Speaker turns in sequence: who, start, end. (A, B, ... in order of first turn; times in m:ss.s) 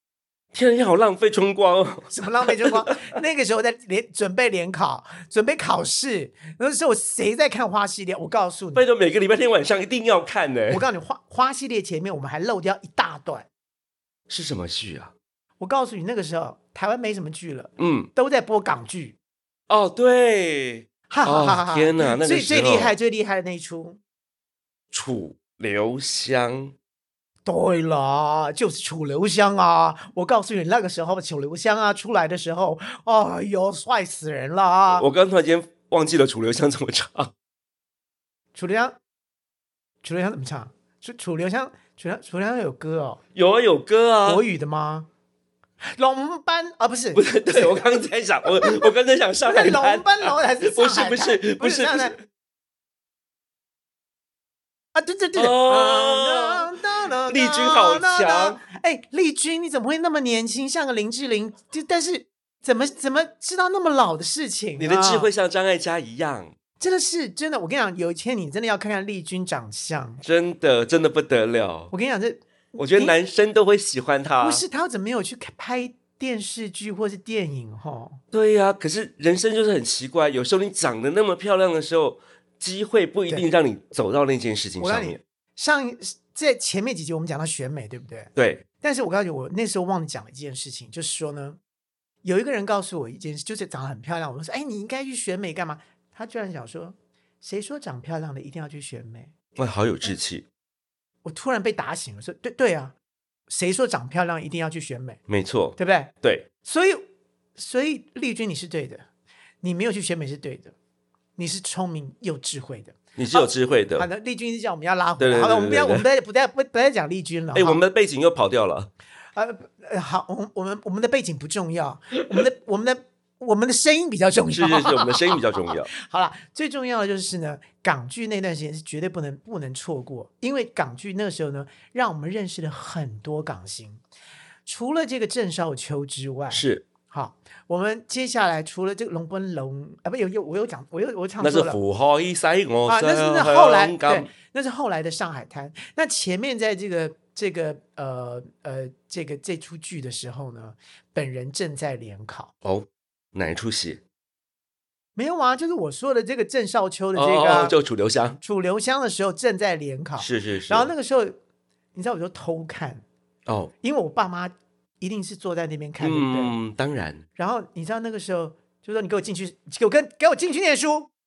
0:00.5-0:03.0 A
0:02.1-0:08.8 B
0:08.8-0:10.8 A
0:10.7-0:13.5 B
0:14.3-0:15.1 A
0:15.6-0:19.2 B
0:17.8-0:18.1 A
0:19.7-0:22.9 A
0:21.1-0:24.0 B
0:24.9-0:26.7 A
0:27.5-0:35.1 B
0:34.9-0:37.3 A
0:38.6-0:39.0 B
0:40.0-0:43.2 B
0:43.4-0:44.4 A
0:44.2-0:45.1 B
0:45.9-0:47.9 B
0:47.2-0:52.2 A
0:48.6-0:48.9 B
0:49.4-0:52.2 B
0:55.0-1:05.3 B
0:55.4-0:56.7 A
0:57.3-0:58.6 A
1:04.8-1:06.5 A
1:06.8-1:10.2 B
1:10.2-1:11.9 A
1:11.9-1:13.2 B
1:12.8-1:14.6 A
1:14.4-1:18.2 B
1:18.3-1:25.2 A
1:24.8-1:31.6 B
1:28.4-1:28.6 A
1:32.2-1:39.3 B
1:39.6-1:40.5 A
1:41.2-1:43.0 B
1:43.5-1:45.2 B
1:45.3-1:46.5 A
1:45.8-1:47.0 B
1:47.6-1:49.1 B
1:49.6-1:50.8 B
1:51.4-1:57.8 B
1:53.2-1:54.1 A
1:55.2-1:56.0 A
1:57.5-1:58.9 A
1:59.4-2:05.4 B
2:04.5-2:05.9 A
2:05.9-2:14.0 B
2:14.7-2:21.8 B
2:16.5-2:16.8 A
2:21.4-2:24.3 A
2:22.9-2:32.5 B
2:32.6-2:34.0 A
2:35.2-2:37.8 B
2:37.2-2:38.4 A
2:38.4-2:41.4 B
2:40.2-2:40.9 A
2:42.0-2:43.0 B
2:43.5-2:43.7 A
2:43.8-2:46.6 B
2:46.0-2:47.2 A
2:47.4-2:51.1 B